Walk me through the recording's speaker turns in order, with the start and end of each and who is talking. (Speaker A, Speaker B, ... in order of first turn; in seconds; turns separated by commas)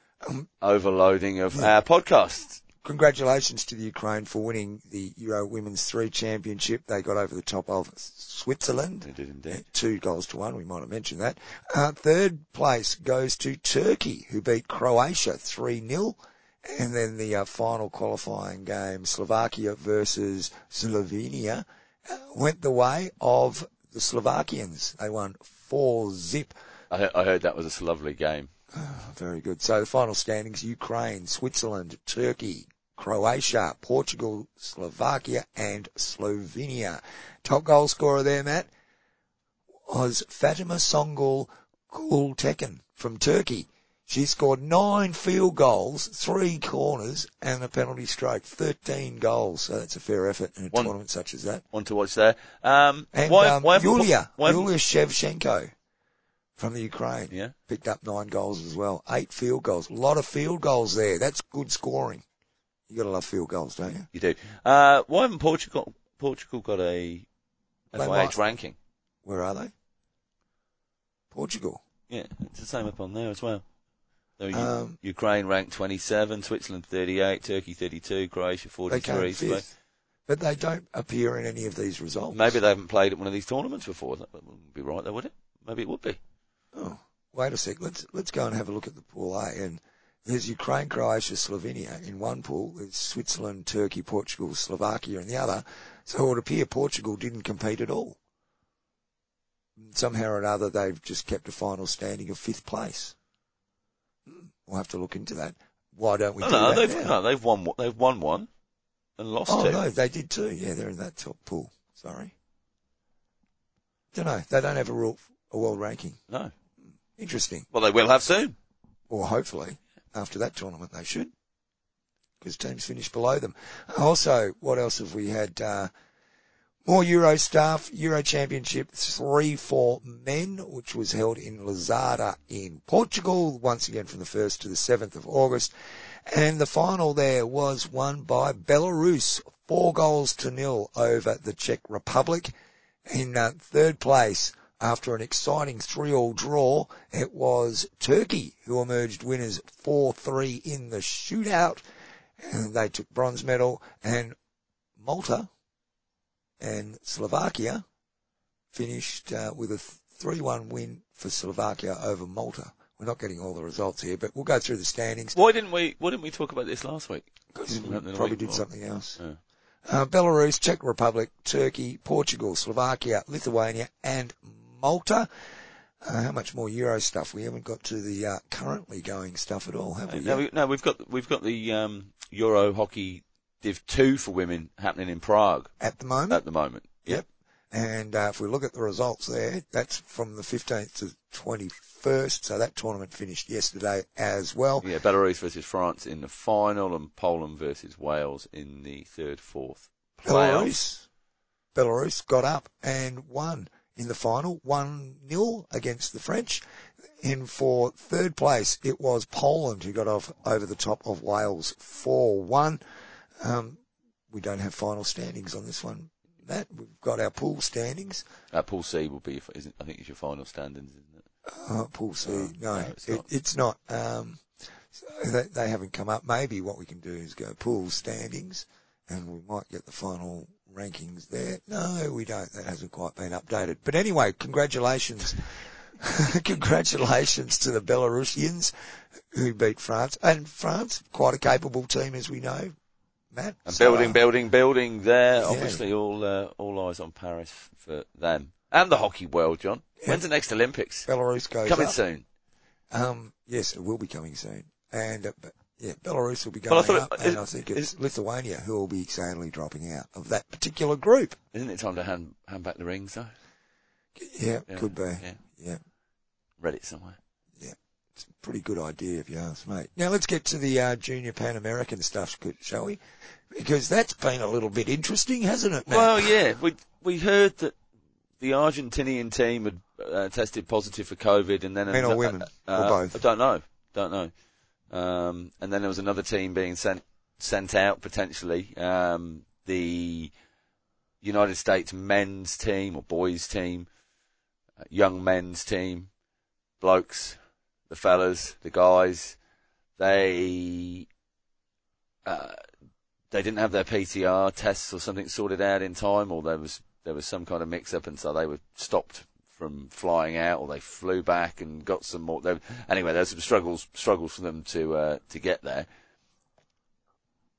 Speaker A: 0.2-0.5, Speaker B: 0.6-2.6, Speaker A: 2.8-26.5, Speaker B: 9.0-9.6, Speaker B: 26.9-28.5, Speaker A: 28.7-38.7, Speaker A: 39.9-51.6, Speaker B: 51.7-54.7, Speaker A: 53.1-55.7, Speaker A: 56.6-62.2, Speaker B: 57.3-57.5, Speaker A: 62.9-64.1, Speaker B: 64.1-67.3, Speaker B: 67.9-68.8, Speaker A: 67.9-68.4, Speaker A: 69.2-69.7, Speaker A: 71.3-71.8, Speaker B: 72.1-73.7, Speaker B: 74.4-79.7, Speaker A: 74.5-75.0, Speaker A: 78.9-79.7, Speaker A: 80.3-82.5, Speaker B: 82.3-86.2, Speaker A: 86.7-98.2, Speaker A: 99.8-103.1, Speaker A: 104.3-107.1, Speaker B: 106.4-108.5, Speaker B: 109.2-109.8, Speaker A: 109.5-112.3, Speaker A: 114.1-116.2, Speaker A: 117.2-117.7, Speaker B: 117.7-118.5, Speaker A: 119.1-121.3, Speaker A: 122.4-125.9, Speaker A: 126.8-135.7, Speaker A: 136.3-142.5, Speaker A: 143.1-151.8, Speaker A: 152.4-154.3, Speaker A: 155.0-155.5, Speaker A: 156.6-157.8, Speaker A: 158.7-165.3, Speaker B: 165.3-167.3, Speaker A: 167.5-169.2, Speaker B: 167.8-168.7, Speaker A: 169.8-175.3, Speaker A: 176.0-180.4, Speaker B: 180.1-185.7, Speaker A: 185.8-186.4, Speaker B: 186.3-187.2, Speaker A: 187.1-194.9, Speaker B: 194.8-200.8, Speaker A: 200.2-201.1, Speaker A: 201.7-206.6, Speaker A: 207.2-212.8, Speaker A: 213.4-218.2, Speaker B: 218.5-221.2, Speaker A: 221.4-242.7, Speaker B: 222.2-223.2, Speaker A: 243.3-244.2, Speaker B: 243.7-251.1, Speaker A: 245.4-245.8, Speaker A: 251.1-252.0, Speaker B: 251.7-252.2, Speaker A: 252.9-261.4, Speaker B: 256.7-257.9, Speaker B: 261.5-263.3, Speaker A: 264.1-265.8, Speaker B: 264.7-265.4, Speaker B: 266.6-267.2, Speaker A: 267.6-276.4, Speaker B: 275.9-277.8, Speaker B: 278.4-284.3, Speaker A: 281.9-283.2, Speaker B: 284.9-290.3, Speaker B: 291.2-293.9, Speaker B: 294.8-296.1, Speaker B: 296.8-297.4, Speaker B: 297.9-299.4, Speaker B: 300.0-301.1, Speaker B: 302.2-302.6, Speaker B: 303.3-315.9